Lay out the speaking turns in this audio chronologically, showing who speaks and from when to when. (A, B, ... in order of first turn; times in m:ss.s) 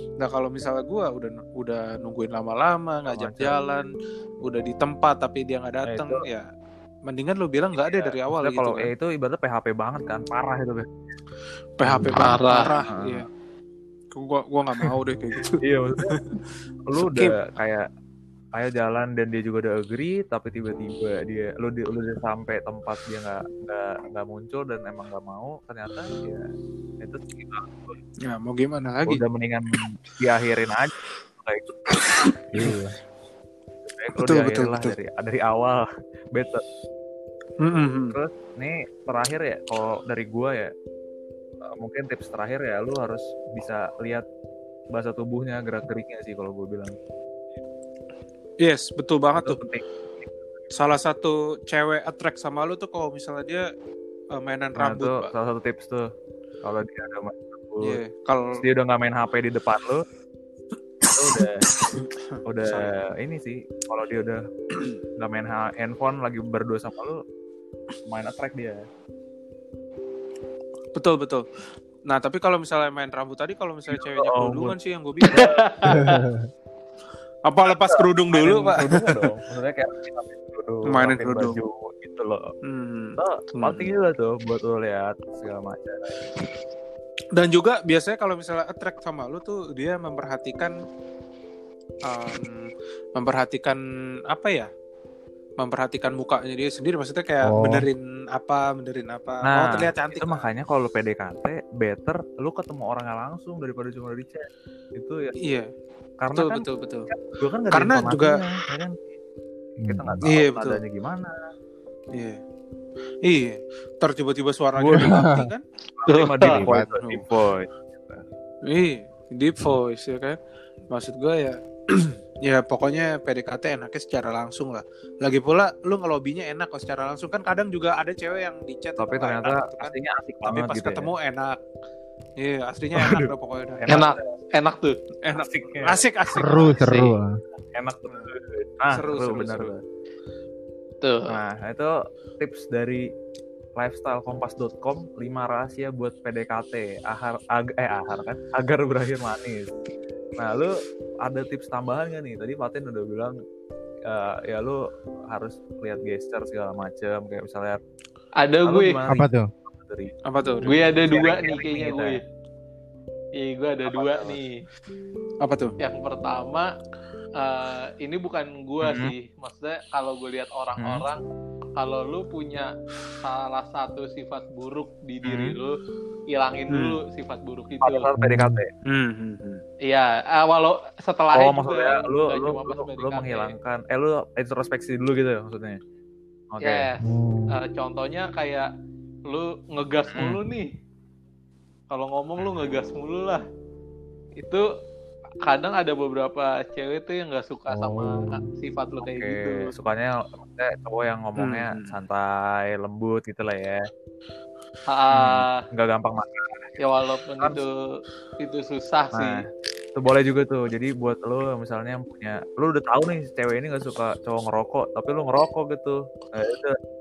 0:00.2-0:03.9 A
0:03.1-0:03.5 B
0:04.4-0:06.5 A
0:05.9-0:06.2 B
0:07.0-0:08.9 A
0:07.8-0:10.9 B
0:11.8-0:13.2 A
0:11.9-0:12.2 B
0:11.9-0:12.2 C
0:12.2-0:12.7 D
0:12.9-0:13.2 B
0:14.1-0:16.2 A
0:15.6-0:16.2 B
0:16.9-0:17.8 B
0:17.0-0:17.4 A
0:18.5-0:26.4 B
0:27.0-0:28.0 B
0:28.2-0:29.2 A
0:29.1-0:31.7 B
0:32.5-0:32.9 C
0:33.8-0:36.6 B
0:34.2-0:34.9 A
0:37.6-0:38.2 A
0:38.1-0:40.7 B
0:41.8-0:44.2 B
0:44.9-0:46.9 B
0:48.6-0:49.6 A
0:49.4-0:49.8 B
0:50.7-0:53.6 A
0:54.3-0:55.3 A
0:54.8-0:56.1 B
0:56.6-0:58.0 B
0:57.8-0:58.6 A
0:58.6-1:00.0 B
1:01.1-1:02.1 A
1:01.1-1:01.6 B
1:02.4-1:04.4 B
1:02.6-1:03.0 A
1:05.2-1:07.2 B
1:08.1-1:08.8 B
1:11.0-1:11.4 A
1:12.1-1:16.2 A
1:13.9-1:15.6 B
1:15.3-1:16.1 D
1:15.9-1:16.4 C
1:17.4-1:19.2 A
1:17.8-1:22.5 B
1:20.9-1:21.6 A
1:22.6-1:23.9 A
1:23.2-1:26.2 B
1:27.3-1:30.8 A
1:32.0-1:34.7 A
1:35.6-1:40.4 A
1:37.4-1:37.9 C
1:39.4-1:45.3 B
1:45.4-1:45.7 A
1:46.2-1:48.9 B
1:46.3-1:47.1 A
1:47.7-1:48.4 A
1:49.8-1:50.2 C
1:49.8-1:51.3 B
1:50.2-1:50.8 A
1:53.2-1:55.6 A
1:54.8-1:55.2 B
1:54.9-1:55.5 C
1:56.0-1:58.2 B
1:56.0-1:56.6 D
1:56.4-1:56.9 C
1:56.6-1:57.2 A
1:58.6-2:00.4 A
2:00.9-2:11.6 A
2:09.0-2:11.1 B
2:12.4-2:14.0 A
2:12.9-2:14.3 B
2:13.9-2:15.0 D
2:15.2-2:16.8 A
2:15.3-2:16.0 B
2:16.3-2:17.4 C
2:16.7-2:17.2 D
2:17.7-2:19.8 B
2:18.9-2:19.7 A
2:21.0-2:21.4 D
2:21.3-2:23.0 B
2:23.8-2:29.7 B
2:30.4-2:30.7 B
2:31.2-2:33.3 B
2:34.1-2:34.8 B
2:35.3-2:37.8 B
2:38.4-2:39.0 D
2:38.6-2:42.2 B
2:39.1-2:39.5 C
2:40.3-2:40.7 A
2:40.6-2:42.2 D
2:43.4-2:44.5 D
2:43.9-2:44.4 B
2:45.4-2:45.7 A
2:45.8-2:46.7 D
2:47.4-2:51.2 D
2:48.8-2:49.1 B
2:50.8-2:51.0 B
2:51.8-2:55.8 D
2:55.2-2:55.6 B
2:56.3-2:58.1 D
2:56.7-2:57.0 A
2:57.8-2:58.7 B
2:58.2-2:58.6 C
2:58.8-2:59.6 A
2:59.9-3:03.5 D
3:01.3-3:05.8 B
3:06.5-3:06.8 B
3:06.6-3:08.7 D
3:07.0-3:07.5 C
3:09.3-3:10.7 D
3:10.1-3:10.4 B
3:11.9-3:13.4 D
3:14.4-3:14.6 D
3:15.4-3:19.7 D
3:17.7-3:18.5 C
3:19.0-3:23.8 B
3:21.4-3:21.9 A
3:24.9-3:25.6 D
3:25.1-3:26.7 B
3:26.8-3:27.7 D
3:28.4-3:29.4 D
3:30.0-3:36.8 B